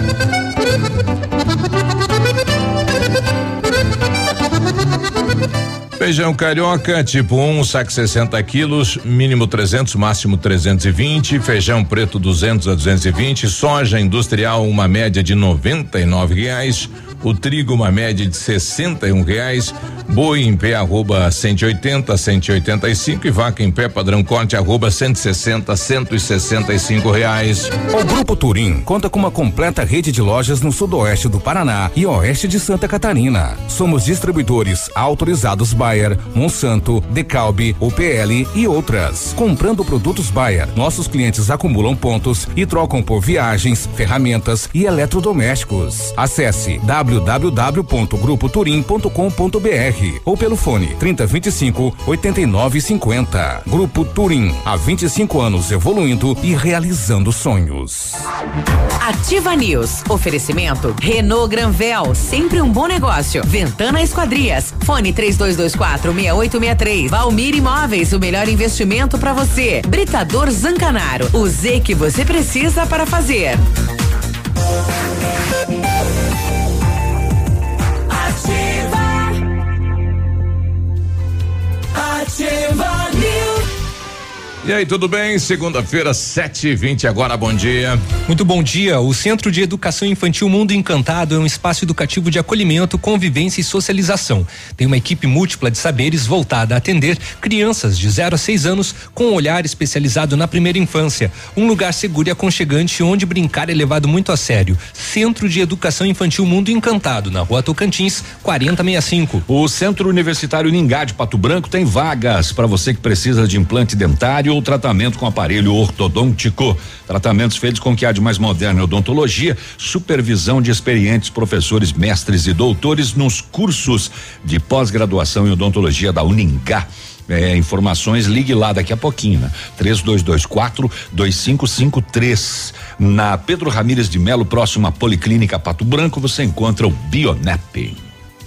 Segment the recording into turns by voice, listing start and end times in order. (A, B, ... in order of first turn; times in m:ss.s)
0:06.0-0:27.8 A
0:28.4-0:39.4 B
0:40.5-0:48.9 B
0:50.0-0:51.1 B
0:51.8-0:52.1 B
0:53.0-0:54.8 B
0:55.8-0:56.4 B
0:57.3-0:57.8 B
0:59.0-1:13.6 C
1:24.6-1:28.0 A
1:28.3-1:49.4 D
1:49.4-2:18.0 E